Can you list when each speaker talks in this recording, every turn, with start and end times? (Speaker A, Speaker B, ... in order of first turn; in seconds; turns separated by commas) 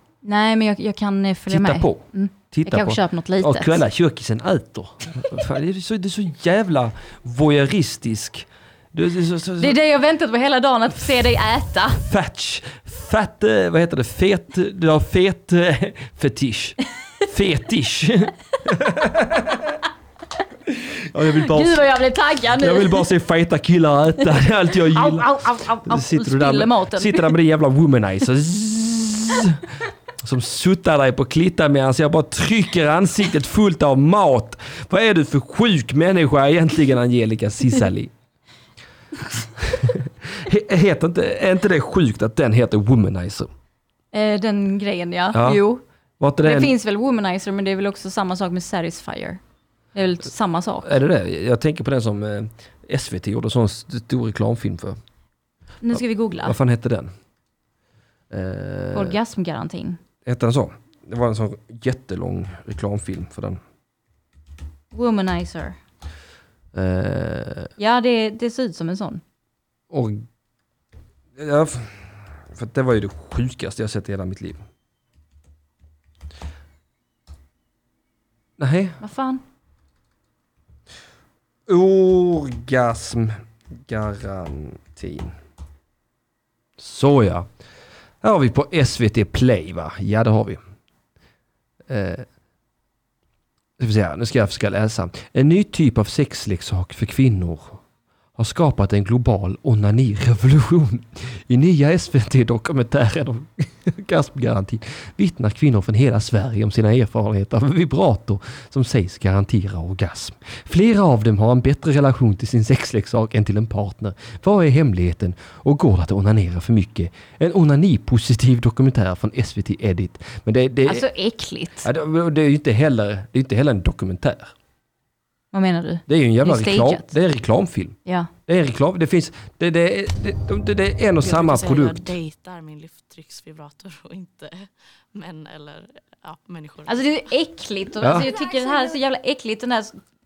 Speaker A: 0.2-3.8, Speaker B: 1.5-9.8, Speaker A: 9.6-12.0, Speaker B: 11.9-19.8, Speaker B: 20.7-21.9, Speaker A: 21.3-23.1, Speaker B: 22.5-29.6, Speaker A: 24.9-27.3, Speaker B: 30.2-38.1, Speaker B: 39.6-43.5, Speaker A: 44.1-45.8, Speaker B: 45.3-45.6, Speaker B: 46.2-46.7, Speaker A: 46.4-49.4, Speaker A: 49.9-50.9, Speaker B: 50.8-55.0, Speaker A: 55.8-56.6, Speaker B: 55.9-57.1, Speaker B: 58.3-59.2, Speaker A: 58.9-60.0, Speaker B: 60.2-63.6, Speaker A: 64.9-65.8, Speaker B: 66.7-67.7, Speaker A: 67.8-69.2, Speaker B: 69.9-70.2, Speaker B: 71.4-74.6, Speaker B: 78.6-79.0, Speaker A: 79.0-79.4, Speaker B: 81.7-85.4, Speaker B: 86.8-87.5, Speaker B: 88.2-90.6, Speaker B: 91.9-92.3, Speaker B: 93.8-97.8, Speaker B: 98.4-121.1, Speaker A: 120.9-121.9, Speaker B: 121.8-124.5, Speaker A: 125.5-127.1, Speaker B: 126.1-128.0, Speaker A: 128.1-128.3, Speaker B: 128.5-132.1, Speaker C: 131.2-137.3, Speaker A: 136.9-140.0, Speaker B: 138.0-138.3, Speaker C: 138.1-139.0